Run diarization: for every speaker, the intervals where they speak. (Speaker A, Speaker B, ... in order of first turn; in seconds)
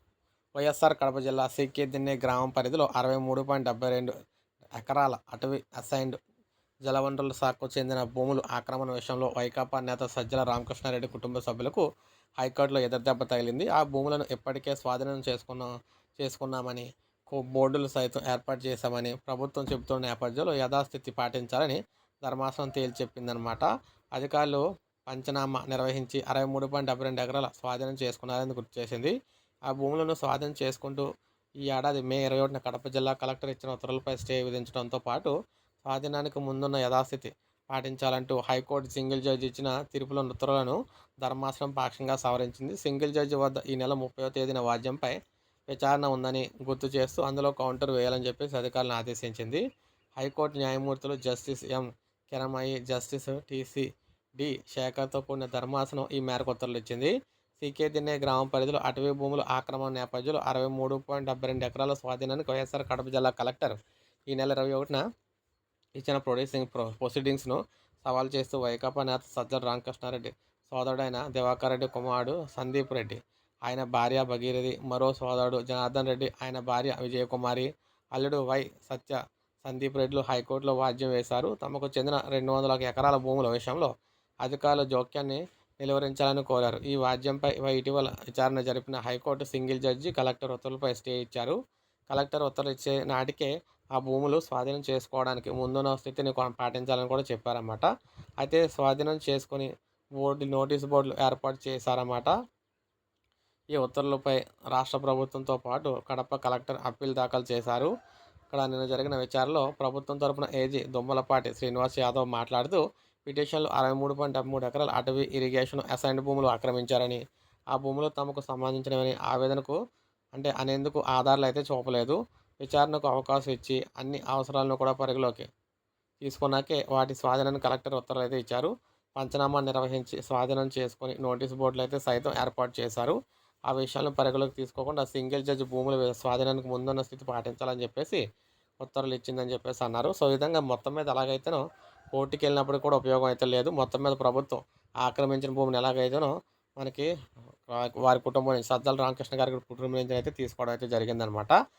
Speaker A: 0.6-4.1, 4.8-6.2, 6.9-11.8, 12.4-29.1, 29.7-31.1, 31.6-35.3, 35.9-45.1, 45.7-49.6, 50.2-53.9, 54.4-63.8, 64.3-65.0, 66.0-83.9, 84.4-91.6, 92.1-97.9, 98.4-102.3, 103.7-107.9, 108.5-117.2, 117.7-119.8, 120.3-125.5, 126.2-133.2, 133.7-138.2, 138.8-141.6, 142.1-147.1, 147.7-151.5